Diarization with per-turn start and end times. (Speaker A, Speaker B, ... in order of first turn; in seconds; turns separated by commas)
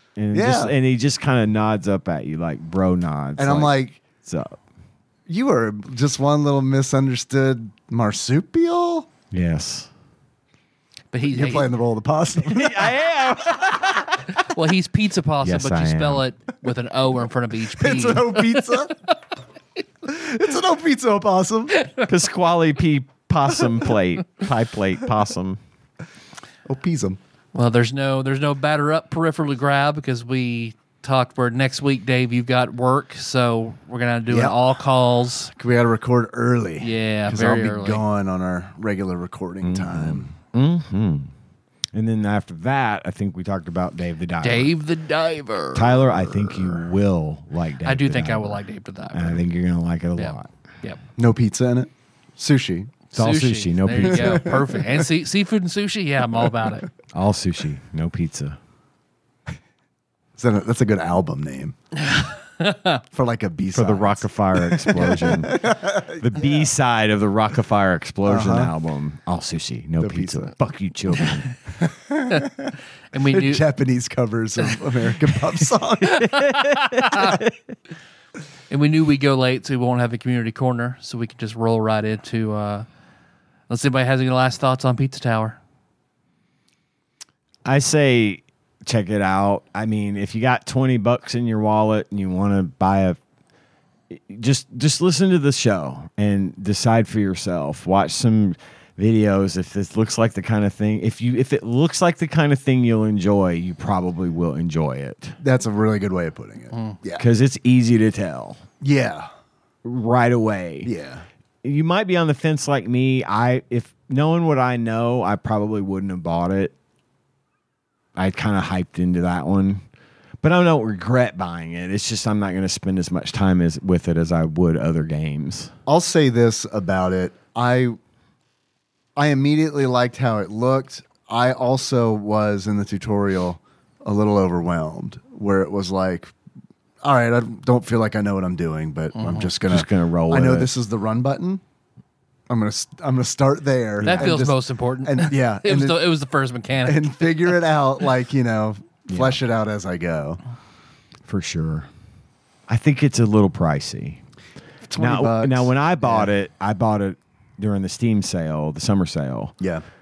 Speaker A: 0.2-4.6, Speaker B: 0.3-0.7, Speaker B: 3.4-4.0, Speaker B: 5.3-9.1, Speaker A: 9.3-9.9, Speaker C: 11.1-11.7, Speaker B: 11.3-12.9, Speaker A: 12.4-14.3, Speaker C: 14.3-18.7, Speaker A: 15.4-16.2, Speaker B: 17.8-18.9, Speaker B: 20.0-21.8, Speaker A: 22.0-25.6, Speaker B: 26.6-27.2, Speaker C: 27.5-35.5, Speaker B: 34.3-34.7, Speaker B: 35.5-40.3, Speaker C: 36.8-38.0, Speaker A: 39.6-41.3, Speaker A: 41.9-44.7, Speaker C: 44.4-46.8, Speaker A: 45.7-50.5, Speaker C: 47.8-49.4, Speaker C: 50.2-51.0, Speaker B: 51.2-53.0, Speaker C: 53.1-56.9, Speaker A: 53.1-54.6, Speaker B: 54.3-54.8, Speaker A: 57.1-58.6, Speaker B: 60.4-61.7, Speaker C: 62.1-63.0, Speaker B: 63.1-66.7, Speaker A: 63.7-71.5, Speaker B: 68.3-68.7, Speaker B: 70.0-70.5, Speaker B: 71.7-72.7, Speaker C: 73.1-73.6, Speaker B: 73.3-76.3, Speaker A: 76.1-77.5, Speaker C: 76.3-77.4, Speaker C: 78.7-82.9, Speaker C: 83.7-85.6, Speaker A: 87.7-93.2, Speaker A: 94.1-105.4, Speaker B: 105.4-107.3, Speaker C: 106.7-107.0, Speaker A: 107.2-108.6, Speaker B: 108.8-109.3, Speaker A: 109.8-110.9, Speaker B: 110.8-111.2, Speaker A: 111.6-116.7, Speaker A: 118.2-119.8, Speaker A: 120.4-125.7, Speaker B: 125.9-128.0, Speaker B: 129.2-136.3, Speaker B: 137.0-141.6, Speaker C: 139.2-139.5, Speaker A: 139.6-140.7, Speaker B: 142.5-146.0, Speaker A: 144.0-144.4, Speaker C: 144.0-147.6, Speaker B: 146.9-150.4, Speaker A: 149.1-149.4, Speaker A: 151.3-151.9, Speaker A: 152.7-154.2, Speaker B: 154.9-156.3, Speaker A: 155.0-159.5